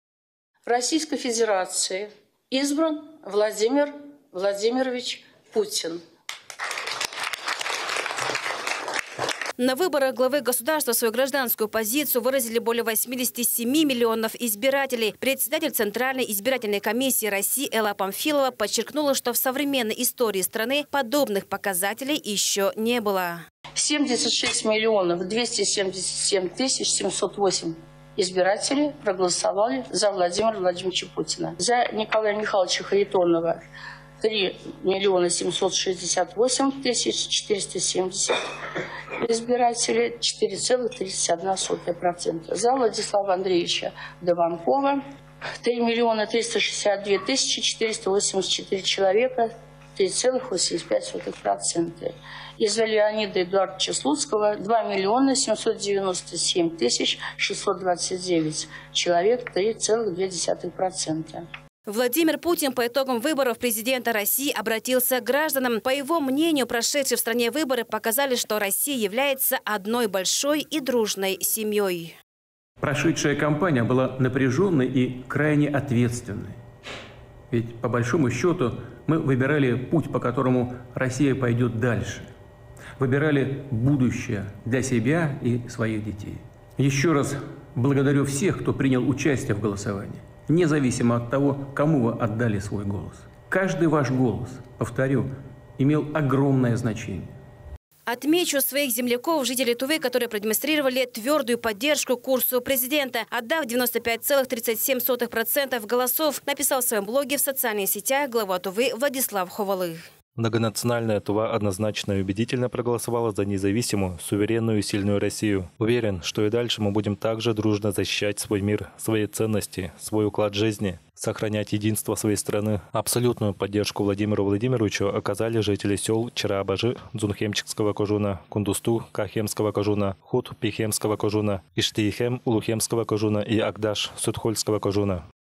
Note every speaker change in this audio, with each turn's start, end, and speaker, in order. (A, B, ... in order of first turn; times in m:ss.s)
0:00.7-0:06.0 A
0:09.6-0:23.4 B
0:23.8-0:33.6 A
0:34.2-0:38.4 A
0:39.2-0:45.0 A
0:45.6-1:01.4 A
1:01.9-1:12.2 B
1:12.8-1:16.6 C
1:17.5-1:22.3 C
1:23.0-1:37.3 C
1:38.1-1:50.0 B
1:50.4-2:15.2 D